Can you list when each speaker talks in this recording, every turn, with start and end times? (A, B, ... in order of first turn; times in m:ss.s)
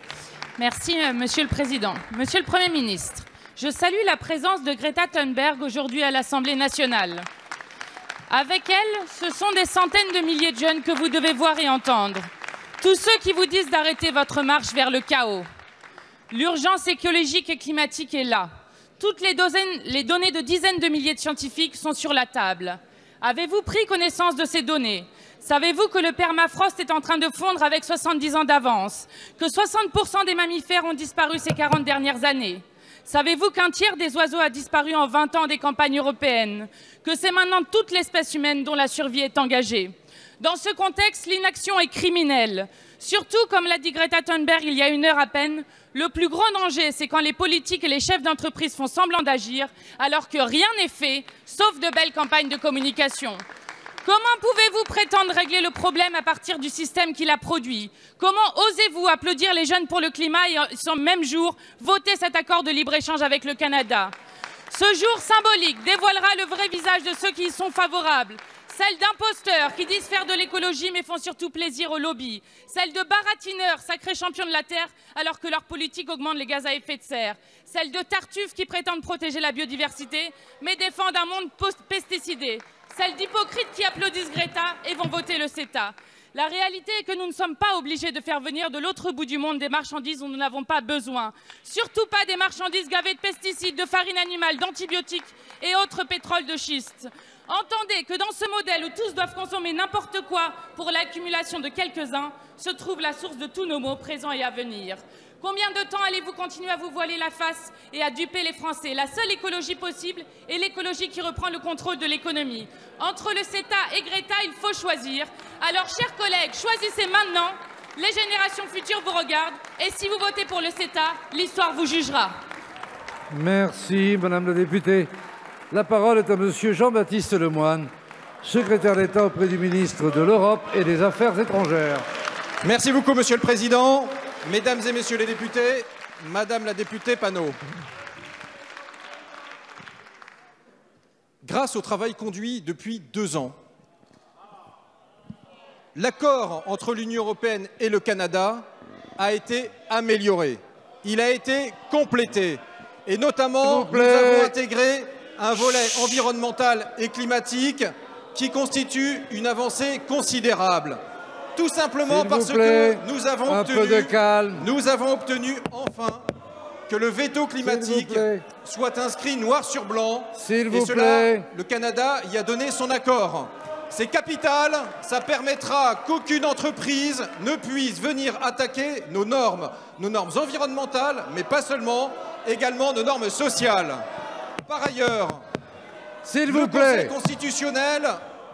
0:00.6-0:07.2 A
0:08.3-0:12.2 A
0:12.8-0:15.5 A
0:16.3-0:53.4 A
0:54.0-1:04.1 A
1:04.7-2:02.3 A
2:03.3-2:05.1 B
2:05.7-2:07.9 B
2:08.4-2:12.0 B
2:12.6-2:17.6 C
2:21.4-2:23.5 C
2:25.9-2:28.6 C
2:29.2-2:41.0 C
2:33.6-2:34.5 B
2:41.5-2:46.2 C
2:42.1-2:44.6 B
2:46.9-3:04.0 C
2:47.6-2:48.4 B
2:50.3-2:51.4 B
3:04.6-3:05.4 C
3:06.2-3:07.1 B
3:06.5-3:08.2 C